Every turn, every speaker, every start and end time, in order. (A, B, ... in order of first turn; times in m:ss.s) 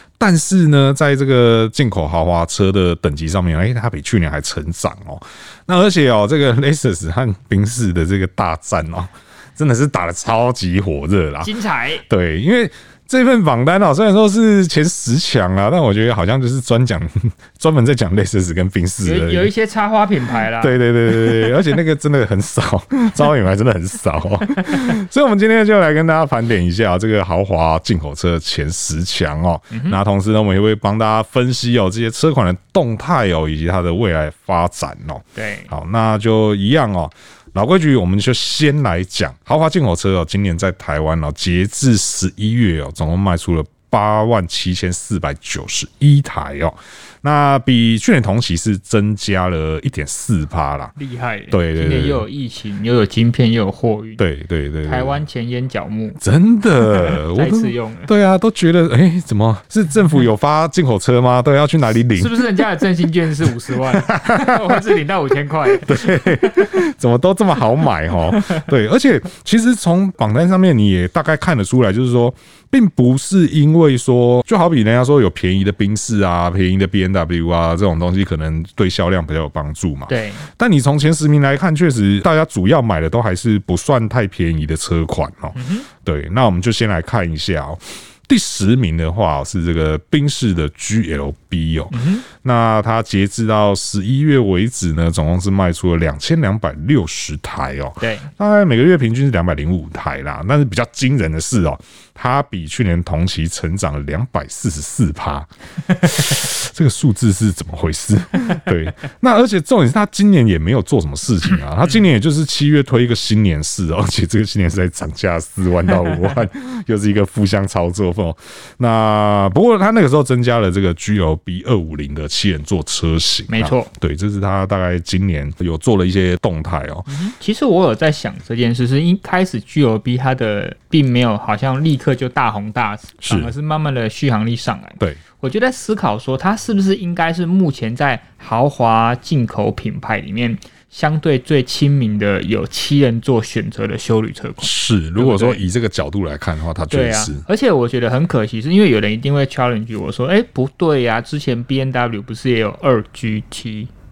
0:00.2-0:11.5 A
0:11.4-0:12.0 B
0:12.0-0:19.5 A
0:19.0-0:21.5 B
0:20.6-0:50.9 A
0:29.7-0:30.0 B
0:35.4-0:35.7 B
0:51.0-0:54.2 B
0:51.5-0:52.2 A
0:54.2-0:55.2 A
0:54.8-0:56.2 B
0:56.2-1:02.4 A
0:56.8-0:58.1 B
1:02.2-1:06.8 B
1:03.9-1:04.8 A
1:05.7-1:45.5 A
1:08.3-1:08.7 B
1:20.1-1:20.5 B
1:25.6-1:25.9 B
1:31.9-1:32.3 B
1:38.0-1:38.3 B
1:46.0-2:07.1 A
2:03.5-2:03.9 B
2:07.1-2:25.6 B
2:13.2-2:13.5 A
2:24.6-2:27.4 A
2:26.9-2:33.9 B